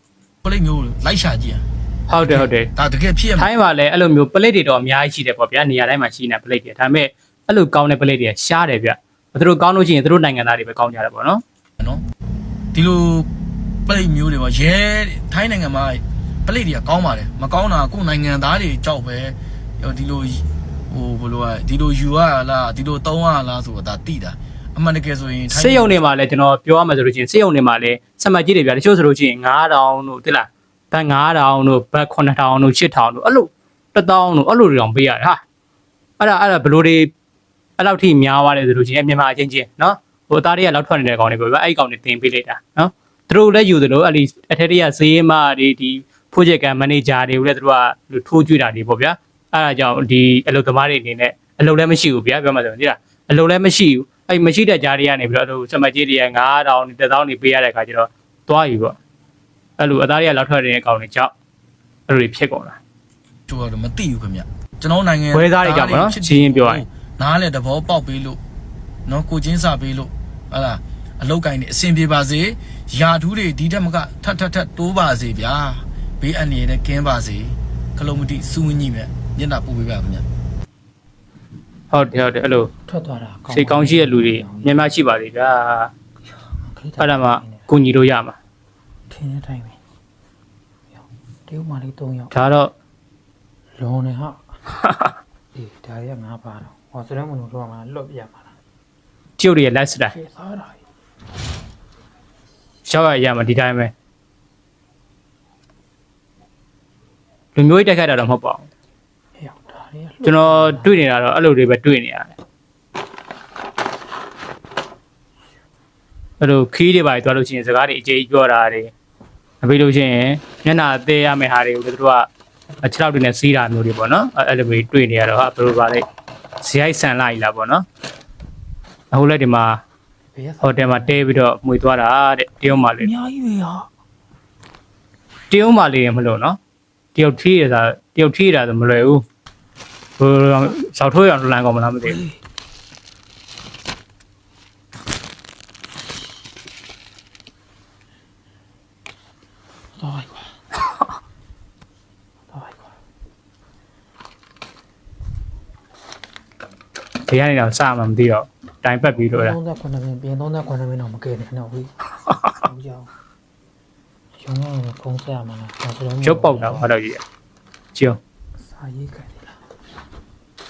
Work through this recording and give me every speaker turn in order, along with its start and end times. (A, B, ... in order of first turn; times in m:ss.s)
0:00.4-0:01.6 A
0:02.1-0:02.7 B
0:02.2-0:03.5 A
0:03.4-0:11.4 B
0:12.7-0:13.3 A
0:13.8-0:26.0 A
0:25.5-0:35.4 B
0:36.2-0:37.1 B
0:37.8-0:59.0 B
0:59.8-1:01.3 B
1:02.1-1:02.8 B
1:03.5-1:08.4 A
1:05.3-1:06.8 B
1:09.0-1:20.2 A
1:21.9-1:22.7 B
1:22.8-1:24.9 C
1:23.5-1:25.9 B
1:26.4-1:27.7 C
1:27.0-1:28.4 B
1:29.1-1:29.8 C
1:30.9-1:32.3 C
1:32.3-1:32.7 B
1:33.8-1:34.6 C
1:35.5-1:38.5 C
1:39.4-1:40.1 B
1:40.1-1:40.8 C
1:42.8-1:43.9 B
1:47.5-1:48.6 B
1:49.4-1:51.0 C
1:50.2-1:52.3 B
1:56.4-1:58.9 B
1:59.6-2:02.3 B
2:02.8-2:06.0 B
2:06.6-2:07.8 B
2:09.1-2:09.8 B
2:10.3-2:11.2 C
2:10.6-2:13.1 B
2:12.7-2:13.9 C
2:15.5-2:16.6 B
2:17.1-2:19.2 B
2:20.2-2:22.2 B
2:29.9-2:30.6 C
2:32.5-2:32.9 C
2:37.3-2:39.6 B
2:39.3-2:43.1 C
2:44.4-2:46.9 C
2:46.2-2:47.2 B
2:48.6-2:49.6 C